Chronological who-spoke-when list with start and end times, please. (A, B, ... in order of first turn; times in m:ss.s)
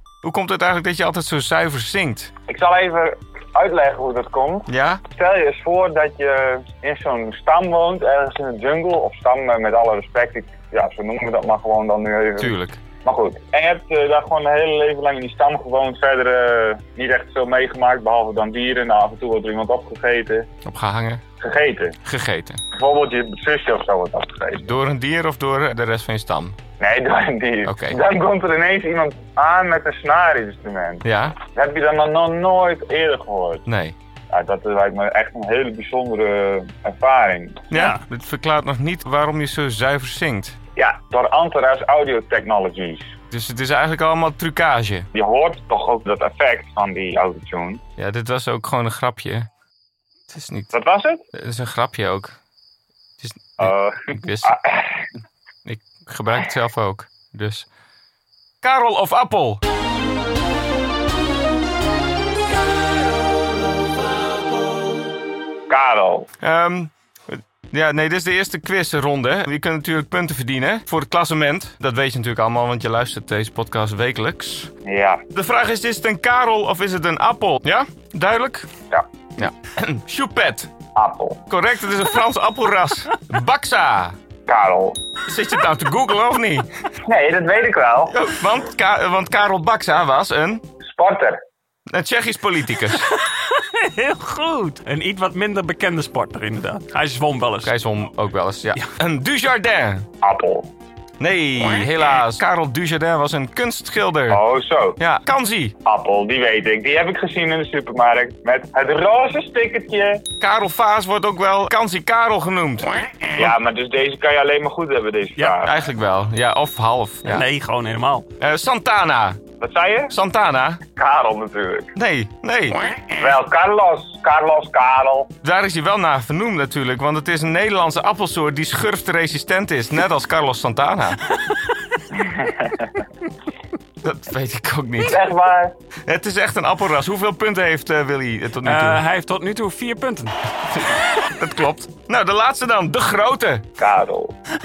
0:00.2-0:02.3 A
0:02.5-0:20.5 B
0:04.7-0:05.0 A
0:12.4-0:12.8 A
0:20.6-0:21.2 A
0:21.4-0:22.0 B
0:22.0-0:22.6 A
0:22.7-0:24.7 B
0:24.6-0:26.6 A
0:26.8-0:33.6 B
0:27.6-0:28.0 A
0:31.0-0:31.4 A
0:33.7-0:34.0 A
0:34.3-0:37.7 B
0:37.7-0:40.6 A
0:37.7-0:38.0 C
0:40.8-0:43.2 B
0:43.3-0:45.1 A
0:45.1-0:47.8 B
0:48.0-0:49.5 A
0:50.3-0:50.8 A
0:50.7-0:51.2 B
0:51.3-0:52.4 A
0:53.2-0:54.6 A
0:53.6-0:55.0 B
0:55.6-0:57.7 A
0:58.6-0:59.6 A
1:05.7-1:06.3 B
1:06.4-1:14.7 A
1:14.8-1:15.2 B
1:15.3-1:18.7 A
1:19.4-1:20.7 A
1:21.0-1:21.4 B
1:21.5-1:24.2 A
1:24.5-1:25.0 B
1:25.3-1:26.7 A
1:27.1-1:28.1 B
1:28.1-1:30.6 A
1:30.8-1:31.4 B
1:31.9-1:33.1 A
1:33.2-1:37.7 C
1:37.6-1:40.1 A
1:40.2-1:40.7 B
1:41.2-1:44.4 A
1:44.3-1:45.0 B
1:45.0-1:45.8 A
1:45.8-1:50.2 B
1:50.4-1:53.5 A
1:53.4-1:55.7 B
1:55.6-1:57.5 A
1:57.2-1:58.3 C
1:58.4-1:59.4 A
1:59.6-2:00.1 B
2:00.1-2:00.8 A
2:01.0-2:01.9 B
2:02.0-2:03.1 A
2:03.2-2:05.3 B
2:05.4-2:11.2 A
2:12.2-2:12.9 B
2:14.0-2:15.2 A
2:15.0-2:15.7 B
2:16.0-2:19.0 A
2:18.6-2:20.8 C
2:20.9-2:23.7 A
2:23.8-2:24.4 B